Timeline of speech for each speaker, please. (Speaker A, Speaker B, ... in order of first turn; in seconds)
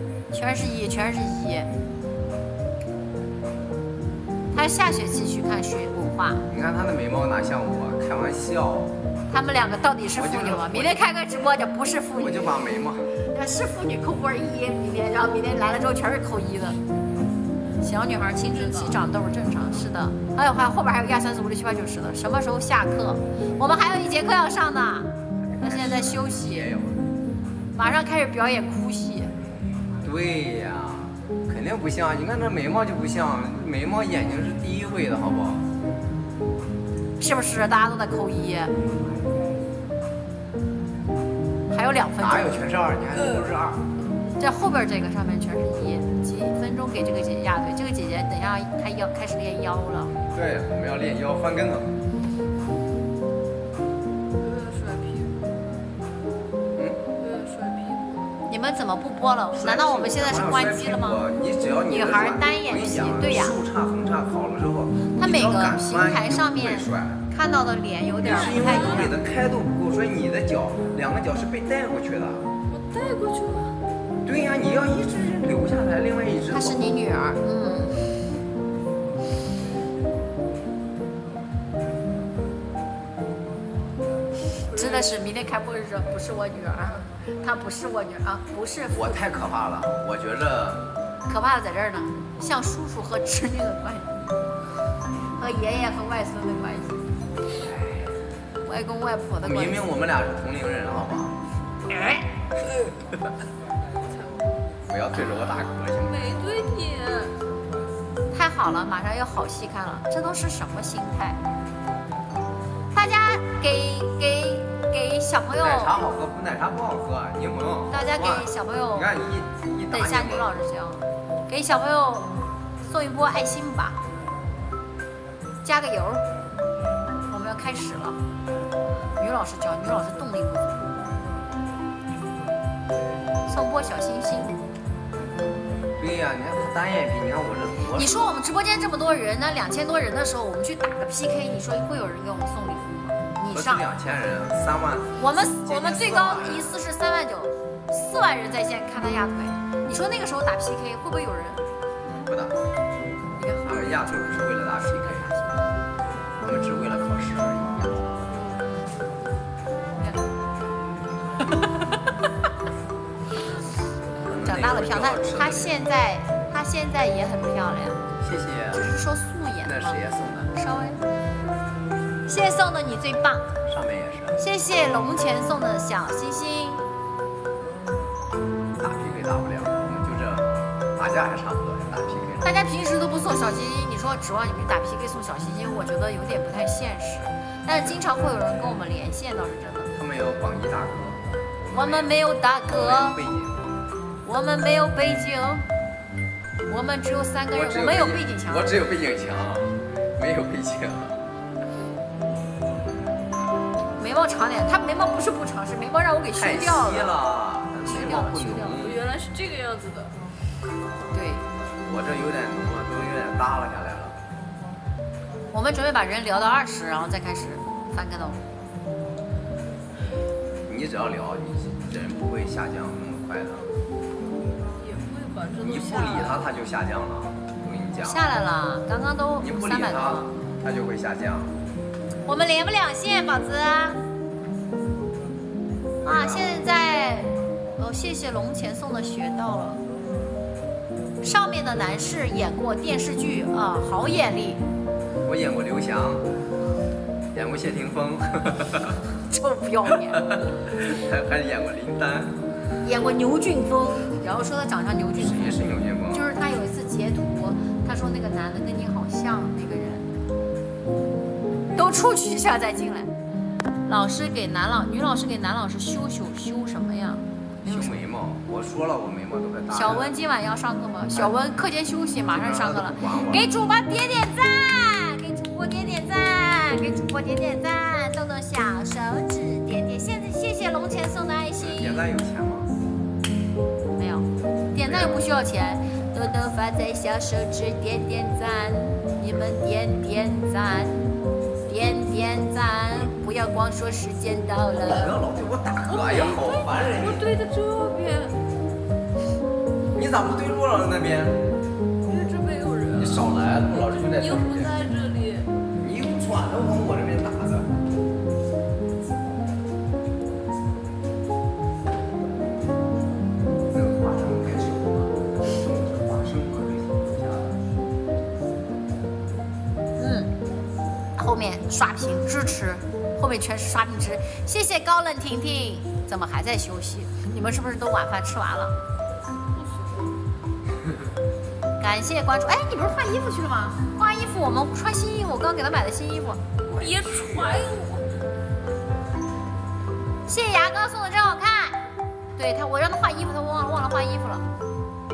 Speaker A: 0.3-1.7, 4.5-6.4, 9.3-12.6, 13.3-16.8, 17.8-25.1, 25.6-26.7, 27.8-29.3, 37.2-38.7, 41.7-42.6, 44.4-50.1, 58.5-61.2, 61.9-63.6, 65.1-69.1, 76.5-78.1, 84.7-89.2, 91.3-94.1, 95.4-97.0, 98.7-99.9, 101.9-102.3, 105.2-105.5, 108.3-111.4, 112.9-116.0, 117.9-119.1, 119.9-122.3, 122.8-124.0, 125.7-126.2, 127.3-128.2, 129.2-130.9, 133.5-134.6, 137.9-143.8, 145.2-151.7, 153.4-155.7, 160.0-160.2, 164.4-168.0, 168.7-170.0, 170.6-171.0, 172.3-173.6, 174.4-176.8, 182.4-189.9, 191.7-193.2, 194.2-195.7, 196.7-198.8, 204.0-207.2, 207.8-208.8, 211.1-211.4, 215.5-218.4, 228.0-230.3, 232.3-234.0, 236.0-239.8, 241.2-244.6, 249.3-250.2, 252.8-260.1, 261.8-263.1, 263.9-268.0, 269.7-282.0, 283.9-290.9, 291.7-295.1, 296.0-296.4, 320.0-320.3, 321.2-328.7, 331.8-338.1, 340.3-341.8, 342.4-344.5
Speaker B: 6.5-8.9, 10.1-11.0, 12.2-13.1, 25.4-27.1, 30.0-35.6, 42.2-43.8, 50.3-51.9, 59.5-67.2, 68.3-72.5, 74.2-76.9, 88.9-90.8, 97.6-98.1, 99.4-101.3, 102.7-103.0, 104.9-106.3, 115.6-120.5, 136.0-138.2, 143.5-146.7, 152.3-152.5, 153.7-155.3, 156.4-157.9, 164.2-165.7, 168.2-168.9, 169.7-170.5, 173.7-174.4, 178.8-182.5, 187.8-188.0, 190.0-192.2, 192.7-193.6, 197.5-201.2, 206.4-209.0, 211.8-214.2, 220.7-223.6, 225.6-228.2, 229.4-231.5, 236.1-236.5, 245.3-246.2, 247.3-249.0, 250.1-252.4, 255.2-256.2, 267.6-270.1, 272.3-273.5, 281.6-282.7, 284.8-285.2, 294.9-297.2, 299.9-301.4, 303.0-304.8, 305.8-307.7, 313.7-317.6, 336.7-337.6
Speaker C: 54.4-55.6, 57.2-58.4, 68.3-69.1, 72.7-73.8, 84.7-85.1, 104.0-104.5, 106.1-107.4, 158.4-158.7, 208.8-210.2, 224.7-226.5, 295.9-298.4, 302.0-305.5, 329.5-330.1